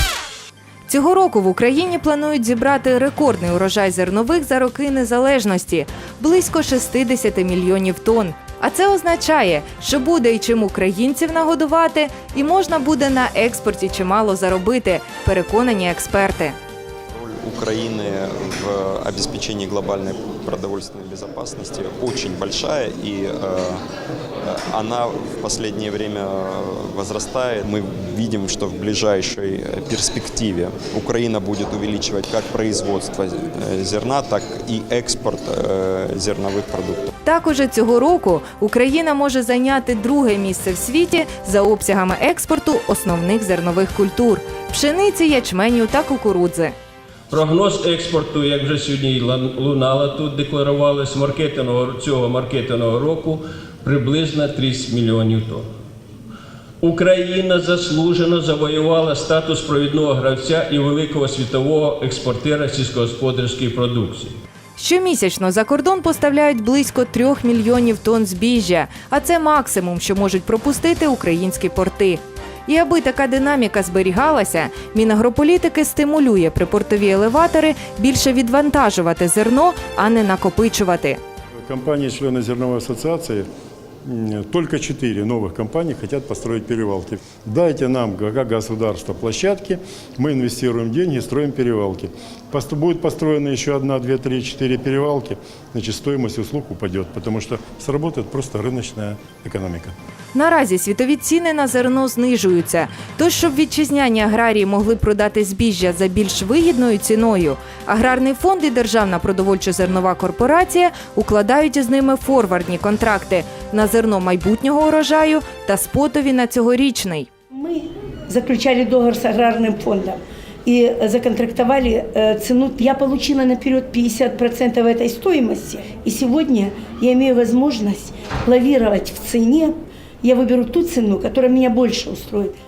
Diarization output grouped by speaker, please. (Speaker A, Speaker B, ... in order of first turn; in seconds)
Speaker A: 0.9-16.6, 37.2-46.7, 64.8-81.2, 100.3-117.3
Speaker B: 17.1-23.8, 24.4-37.1
Speaker C: 47.3-55.6, 56.8-64.3
Speaker D: 81.7-83.5, 84.0-99.9
Speaker E: 117.5-132.6